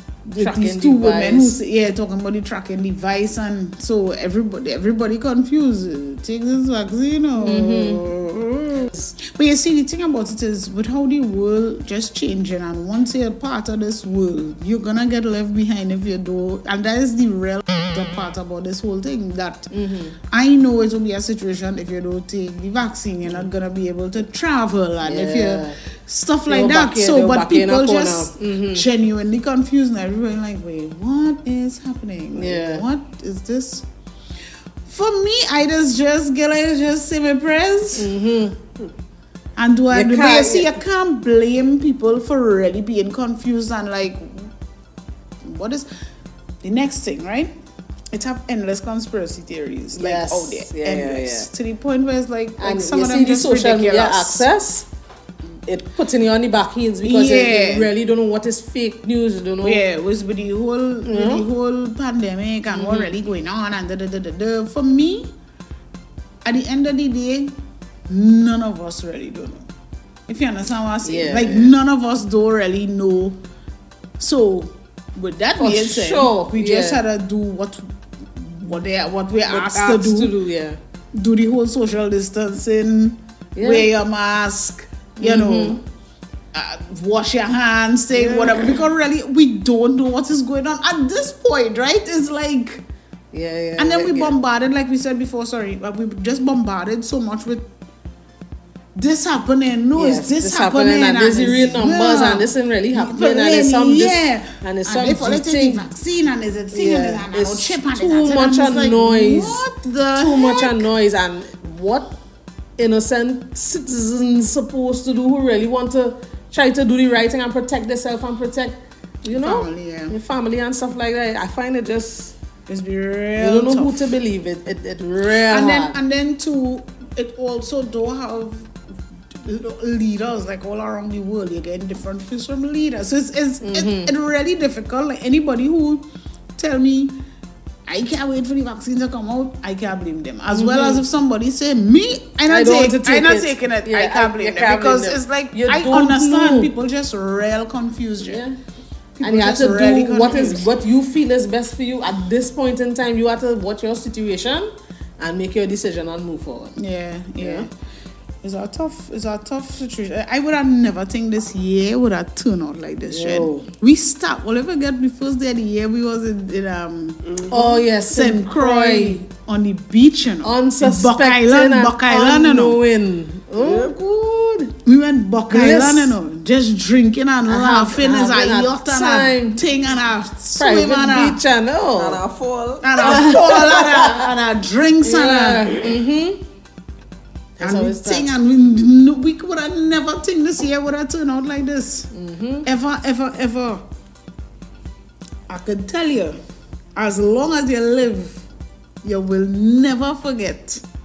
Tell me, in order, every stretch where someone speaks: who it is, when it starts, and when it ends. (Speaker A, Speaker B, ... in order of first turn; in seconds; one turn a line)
Speaker A: 0.2-19.7
Speaker B: 0.4-1.6
Speaker B: 7.4-8.1
Speaker B: 19.7-20.1
Speaker A: 20.3-33.9
Speaker B: 25.0-25.8
Speaker B: 26.5-28.9
Speaker B: 32.4-32.8
Speaker A: 34.9-38.1
Speaker B: 37.9-38.6
Speaker A: 39.6-44.5
Speaker B: 39.9-40.8
Speaker A: 45.4-45.9
Speaker A: 46.6-47.5
Speaker A: 48.1-54.5
Speaker B: 49.9-51.5
Speaker B: 52.6-54.9
Speaker B: 55.6-59.8
Speaker A: 57.0-57.9
Speaker A: 59.6-65.3
Speaker B: 61.1-61.4
Speaker B: 62.7-63.1
Speaker A: 66.4-67.5
Speaker A: 68.1-69.7
Speaker A: 70.3-73.4
Speaker B: 71.0-71.8
Speaker A: 74.2-80.3
Speaker B: 75.6-77.0
Speaker B: 79.5-80.8
Speaker A: 81.1-85.8
Speaker B: 83.5-83.9
Speaker B: 85.2-85.8
Speaker A: 86.5-92.8
Speaker B: 88.1-88.8
Speaker B: 93.3-94.4
Speaker A: 93.8-97.7
Speaker A: 99.0-110.8
Speaker B: 100.0-105.8
Speaker B: 106.7-109.7
Speaker B: 110.2-112.1
Speaker B: 112.8-122.3
Speaker A: 119.3-120.2
Speaker A: 122.7-124.1
Speaker B: 123.4-126.0
Speaker A: 125.5-128.7
Speaker A: 129.3-136.0
Speaker B: 133.6-134.1
Speaker A: 136.6-137.2
Speaker A: 137.9-148.4
Speaker B: 140.5-141.1
Speaker B: 142.5-146.7
Speaker B: 148.2-148.6
Speaker A: 149.2-150.7
Speaker B: 149.2-156.8
Speaker A: 156.8-157.7
Speaker B: 157.4-157.7
Speaker A: 158.4-172.8
Speaker B: 163.1-163.7
Speaker C: 167.2-167.7
Speaker B: 167.5-169.2
Speaker B: 170.4-174.8
Speaker C: 173.6-174.0
Speaker A: 174.8-181.4
Speaker B: 175.5-176.1
Speaker B: 177.5-179.6
Speaker B: 180.6-182.2
Speaker C: 181.9-183.7
Speaker A: 182.8-185.8
Speaker B: 183.0-184.3
Speaker B: 185.0-186.4
Speaker B: 187.6-188.3
Speaker A: 187.6-192.1
Speaker B: 192.1-192.7
Speaker A: 192.6-193.8
Speaker A: 195.5-196.4
Speaker A: 197.0-198.4
Speaker A: 199.0-200.8